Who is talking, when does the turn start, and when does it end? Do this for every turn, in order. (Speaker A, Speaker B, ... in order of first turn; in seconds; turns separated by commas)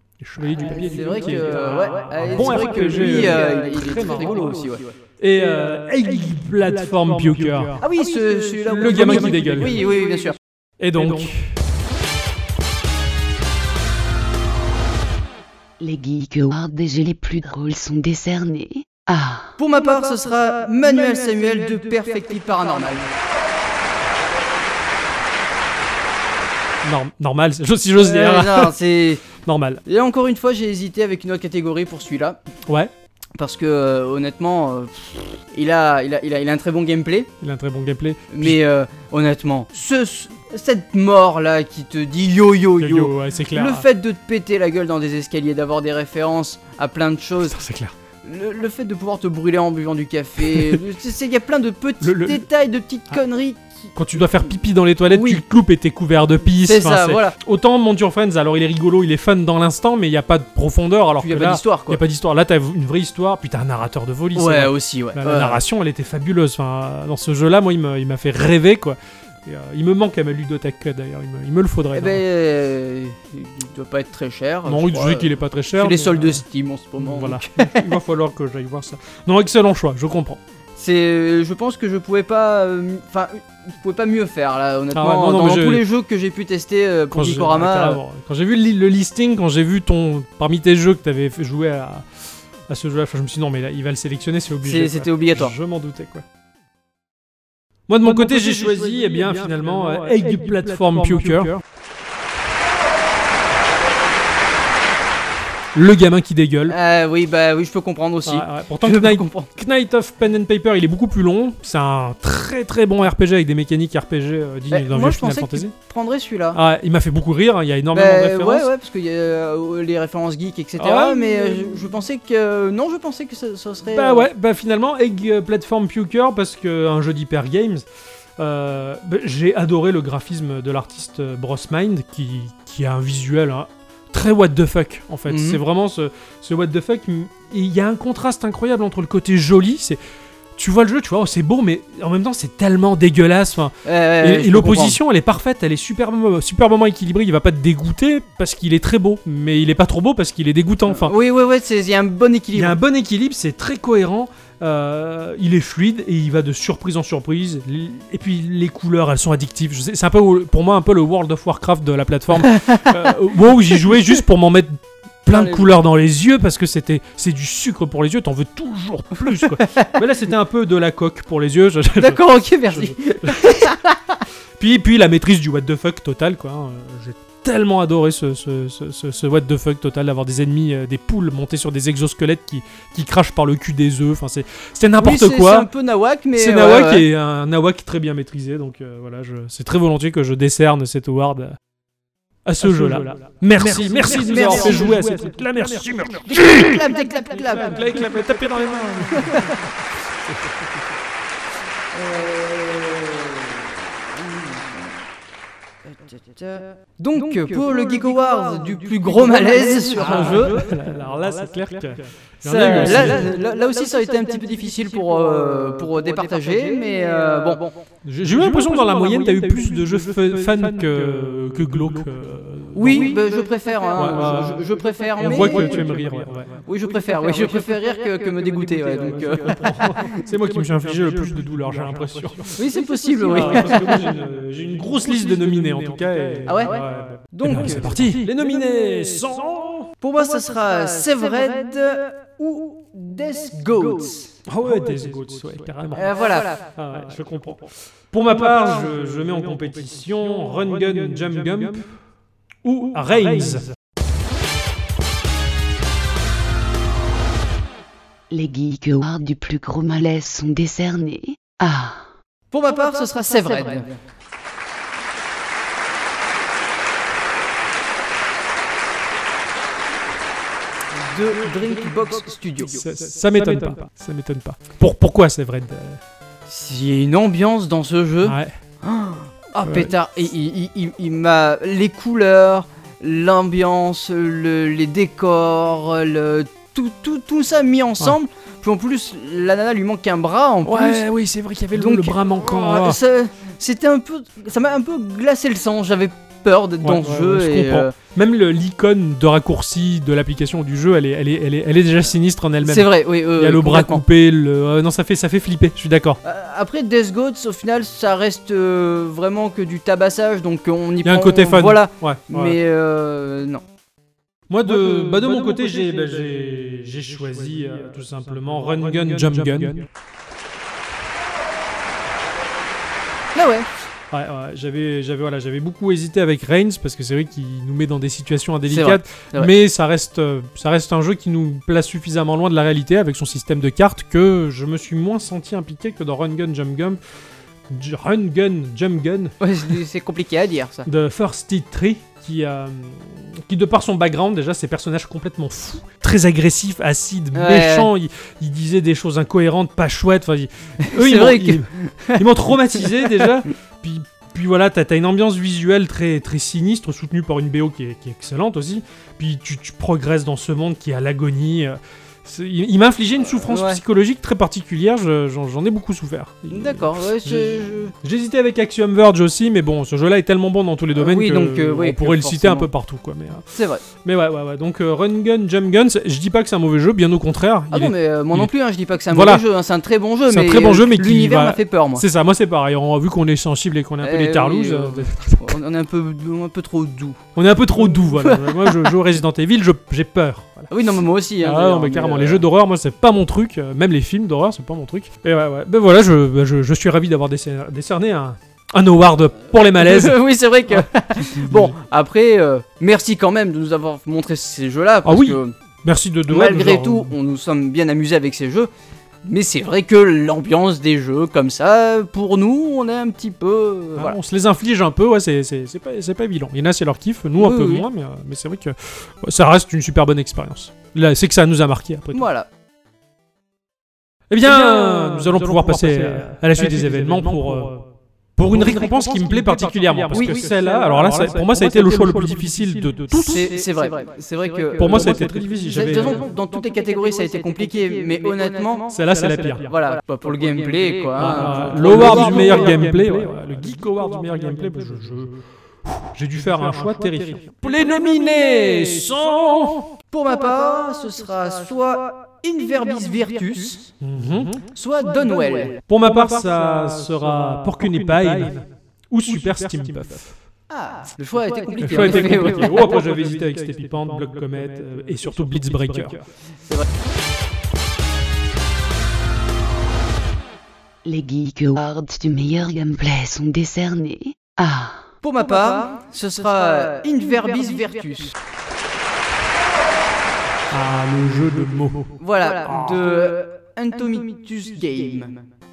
Speaker A: 0.2-7.8, Speaker B: 0.6-4.9, Speaker B: 7.8-10.4, Speaker A: 8.7-9.8, Speaker A: 10.8-11.5, Speaker C: 15.8-19.5, Speaker B: 19.6-23.1, Speaker A: 26.8-28.7, Speaker B: 28.0-29.2, Speaker A: 29.4-29.8, Speaker B: 29.9-32.4, Speaker B: 33.4-37.3, Speaker A: 37.4-38.6, Speaker B: 38.3-47.6, Speaker A: 42.8-43.8, Speaker A: 47.4-47.9, Speaker B: 48.2-53.9, Speaker A: 52.0-52.4, Speaker A: 53.9-72.2, Speaker B: 55.1-55.4, Speaker B: 56.6-57.4, Speaker B: 61.2-62.0, Speaker B: 64.3-65.6, Speaker B: 71.9-77.8, Speaker A: 74.7-76.4, Speaker A: 77.0-80.4, Speaker B: 80.8-88.0, Speaker A: 84.9-85.8, Speaker A: 87.1-92.1, Speaker A: 92.7-96.2, Speaker B: 94.6-95.5, Speaker A: 97.9-101.6, Speaker A: 105.7-106.8, Speaker B: 106.7-109.5, Speaker A: 108.2-115.7, Speaker B: 114.7-116.6, Speaker A: 116.5-118.7, Speaker B: 117.9-124.3, Speaker A: 120.8-121.4, Speaker A: 123.9-127.8, Speaker A: 128.4-140.0, Speaker B: 135.3-135.6, Speaker A: 140.6-151.1, Speaker B: 143.8-145.0, Speaker B: 150.9-152.8, Speaker A: 152.5-173.7, Speaker B: 162.5-163.1, Speaker B: 165.3-165.7, Speaker B: 172.0-174.2, Speaker A: 174.6-185.7, Speaker B: 185.0-187.1, Speaker A: 186.3-191.6, Speaker A: 192.4-196.9, Speaker B: 194.2-194.9, Speaker B: 196.3-197.9, Speaker A: 197.5-199.6, Speaker B: 199.2-199.6, Speaker B: 201.9-204.8, Speaker B: 205.9-210.7, Speaker A: 210.0-213.3, Speaker B: 212.4-217.7, Speaker A: 218.0-223.1, Speaker B: 222.7-225.8, Speaker A: 224.0-224.6, Speaker A: 225.2-226.6, Speaker B: 226.6-230.2, Speaker A: 229.4-232.6, Speaker B: 232.6-234.1, Speaker A: 233.3-239.9, Speaker B: 236.5-237.9, Speaker B: 240.0-244.4, Speaker A: 244.4-251.9, Speaker B: 245.9-246.6, Speaker A: 252.6-253.7, Speaker C: 258.3-262.1, Speaker B: 262.5-263.9, Speaker B: 270.9-272.8, Speaker A: 272.6-276.0, Speaker B: 276.5-291.1, Speaker A: 278.2-278.5, Speaker A: 279.6-279.9, Speaker A: 290.6-293.0, Speaker B: 291.7-297.9, Speaker A: 296.8-306.2, Speaker B: 302.6-304.0, Speaker B: 306.2-313.6, Speaker A: 311.0-312.6, Speaker A: 314.5-319.9, Speaker B: 323.3-323.7, Speaker A: 324.1-337.0, Speaker B: 328.7-329.5, Speaker A: 337.7-339.3, Speaker B: 339.4-340.9, Speaker A: 340.9-373.4, Speaker B: 347.3-347.9, Speaker B: 350.8-352.2, Speaker B: 352.8-353.3, Speaker B: 363.4-363.8, Speaker B: 366.5-367.9, Speaker B: 370.9-372.7, Speaker B: 373.5-373.8, Speaker A: 374.0-378.5, Speaker B: 377.7-382.0, Speaker A: 379.1-379.4, Speaker A: 380.3-385.5, Speaker B: 384.0-387.2, Speaker A: 387.4-390.7, Speaker B: 387.9-388.9, Speaker B: 390.7-392.4, Speaker A: 391.4-401.7, Speaker B: 399.8-405.5, Speaker A: 405.0-407.1, Speaker B: 406.3-408.7, Speaker B: 409.2-414.2, Speaker A: 413.9-422.2, Speaker B: 417.4-417.8, Speaker B: 422.1-422.5, Speaker A: 424.3-427.8, Speaker A: 428.4-433.5, Speaker B: 430.1-430.4, Speaker B: 433.2-438.9, Speaker A: 434.8-436.2, Speaker A: 438.9-439.7, Speaker B: 439.7-442.8, Speaker A: 441.2-445.4, Speaker A: 446.1-449.9, Speaker B: 450.1-453.9, Speaker A: 454.0-454.6, Speaker B: 454.7-455.8, Speaker A: 455.9-460.4, Speaker B: 460.7-462.9, Speaker A: 461.8-466.2, Speaker C: 471.0-475.1, Speaker B: 475.2-478.3, Speaker A: 480.7-482.1, Speaker B: 482.2-485.4